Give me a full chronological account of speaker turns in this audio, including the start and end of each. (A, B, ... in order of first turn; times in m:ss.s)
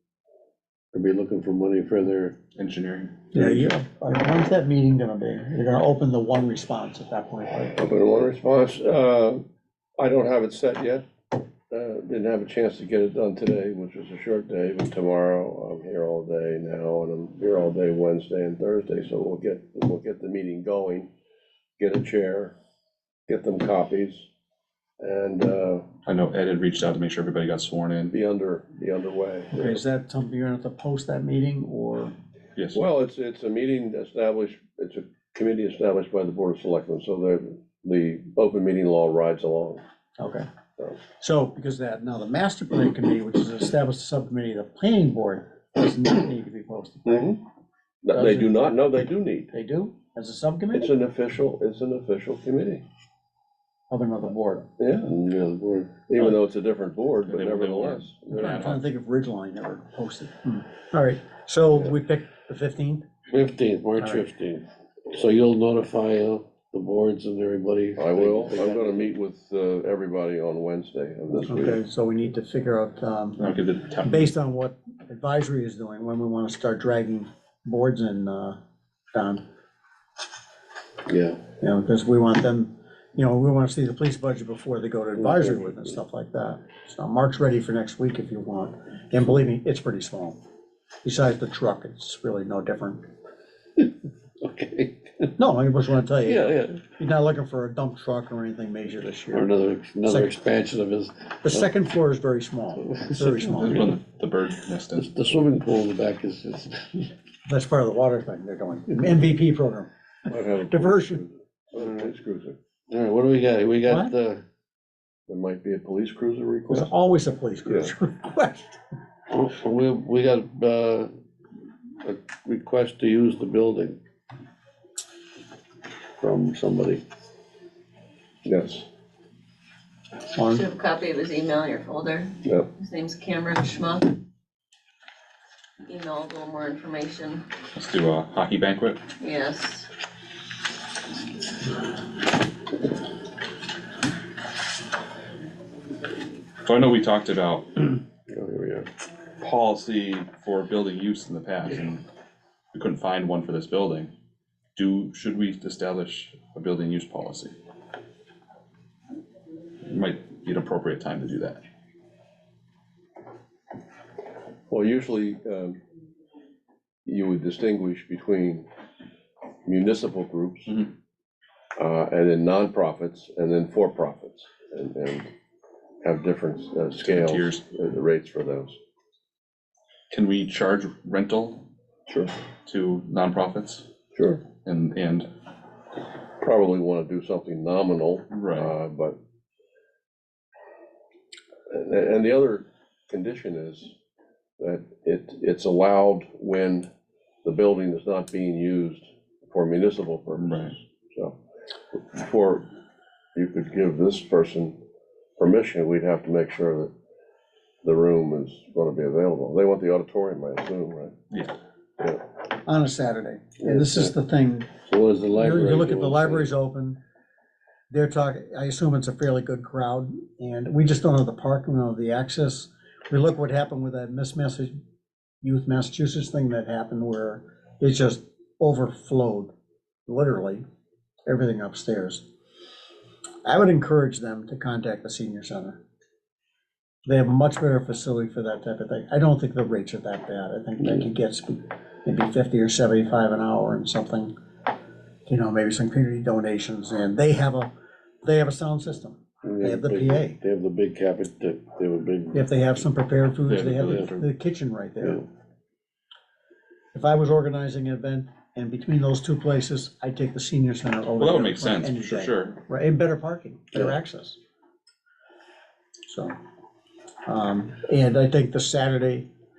0:00.9-0:02.4 A
0:02.6-0:03.2 B
0:03.3-0:07.8 C
0:07.7-0:09.4 D
0:10.0-0:11.0 D
0:11.7-0:21.1 D
0:21.8-0:22.5 D
0:23.3-0:24.3 D
0:25.0-0:25.9 D
0:26.0-0:28.1 B
0:28.1-0:29.8 D
0:29.5-0:32.1 C
0:32.7-0:39.8 D
0:40.2-0:40.5 C
0:41.2-0:47.4 C
0:47.1-0:47.4 D
0:48.0-0:49.5 D
0:48.1-0:48.8 C
0:49.5-0:50.9 C
0:50.7-0:52.8 D
0:53.9-0:54.7 C
0:54.8-0:55.1 D
0:55.1-0:56.1 A
0:56.1-0:58.5 D
0:57.2-0:58.8 B
0:58.4-1:03.1 C
1:03.3-1:09.1 A
1:08.0-1:11.8 D
1:11.5-1:13.5 C
1:13.4-1:14.3 B
1:14.0-1:18.6 C
1:19.1-1:19.4 C
1:21.1-1:21.4 A
1:21.6-1:30.4 C
1:25.2-1:25.8 A
1:31.0-1:33.1 C
1:34.4-1:35.4 A
1:35.4-1:39.5 C
1:36.2-1:36.8 A
1:39.3-1:41.7 A
1:40.0-1:40.4 C
1:41.4-1:44.0 C
1:42.8-1:44.0 A
1:43.6-1:45.1 B
1:45.0-1:47.1 A
1:47.5-1:49.9 C
1:50.3-1:52.6 D
1:50.7-1:51.2 C
1:51.8-1:52.1 A
1:52.9-1:54.4 A
1:55.3-1:56.9 D
1:56.7-1:58.8 C
1:57.7-1:57.9 D
1:59.3-2:01.1 A
2:02.0-2:04.0 A
2:06.2-2:07.0 A
2:08.4-2:08.8 D
2:10.4-2:10.6 C
2:10.5-2:14.2 E
2:15.8-2:17.5 E
2:17.7-2:19.0 B
2:19.2-2:19.9 E
2:26.6-2:28.0 B
2:28.3-2:28.9 A
2:29.4-2:32.0 B
2:32.7-2:34.1 B
2:34.8-2:37.6 B
2:39.9-2:41.6 B
2:44.7-2:45.8 D
2:47.0-2:48.7 D
2:49.6-2:50.7 D
2:51.8-2:55.3 D
2:56.0-2:58.8 D
2:57.0-2:57.6 B
3:00.1-3:01.6 B
3:02.1-3:02.3 D
3:02.6-3:03.8 B
3:04.2-3:04.4 D
3:04.5-3:05.3 B
3:06.4-3:09.2 D
3:08.3-3:08.7 B
3:11.7-3:13.9 D
3:14.6-3:16.9 D
3:17.4-3:21.4 D
3:20.4-3:20.8 B
3:21.9-3:22.7 D
3:23.4-3:24.8 D
3:25.4-3:26.9 D
3:27.8-3:31.2 D
3:31.3-3:31.6 B
3:32.6-3:34.7 C
3:33.6-3:34.1 A
3:34.8-3:36.5 A
3:35.3-3:37.0 C
3:37.9-3:44.8 C
3:45.4-3:49.5 C
3:50.1-3:50.6 C
3:51.3-3:52.2 C
3:53.4-3:55.8 C
3:57.1-4:04.3 C
4:05.3-4:07.7 C
4:08.2-4:10.4 C
4:09.4-4:12.5 A
4:12.3-4:15.3 C
4:13.5-4:14.2 B
4:13.8-4:14.1 A
4:16.9-4:24.4 C
4:21.2-4:22.6 B
4:26.1-4:26.4 C
4:27.3-4:29.3 C